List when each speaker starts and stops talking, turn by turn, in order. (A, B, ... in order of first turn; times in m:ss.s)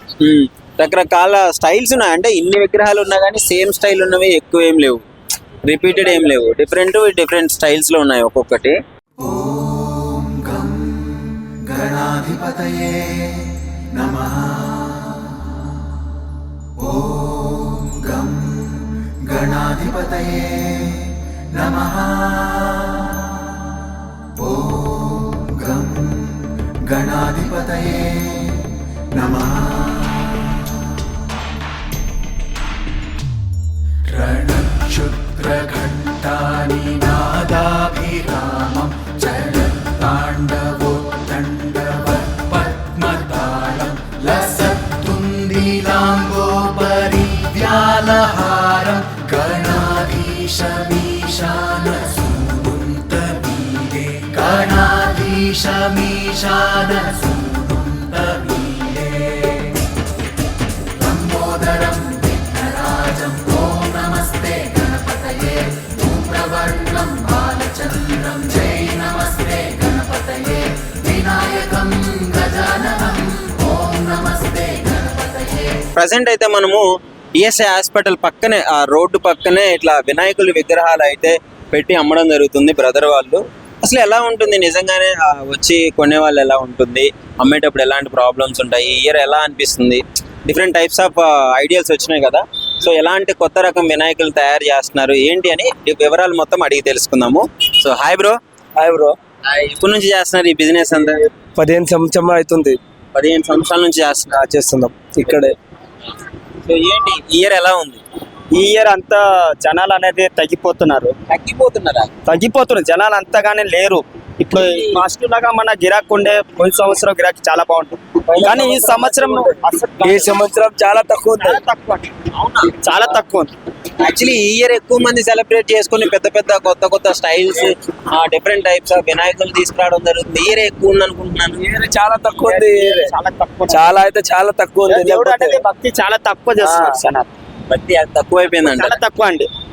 0:00.2-0:05.0 A
0:05.6-0:08.8 A
0:11.7-0:12.9 B
0:19.4-0:20.1 B
0:26.8-0:28.1 B
0:29.2-0:30.0 B
0:34.1-0:59.7 B
1:01.0-1:14.8 B
1:16.0-1:16.8 A
1:17.4-1:38.4 A
1:38.8-1:39.2 C
1:39.5-1:41.2 A
1:40.9-1:42.8 C
1:43.1-1:44.4 A
1:44.3-1:45.5 C
1:46.6-1:48.0 A
1:48.5-1:51.1 D
1:51.3-1:52.1 A
1:52.3-2:00.4 D
1:54.6-1:55.0 A
1:58.4-2:01.6 C
2:01.4-2:02.1 D
2:02.4-2:02.8 A
2:02.8-2:03.5 D
2:04.0-2:11.6 A
2:11.6-2:13.1 C
2:12.5-2:14.0 D
2:13.7-2:15.7 C
2:14.9-2:17.3 D
2:16.6-2:17.0 C
2:17.7-2:19.0 A
2:18.6-2:19.5 D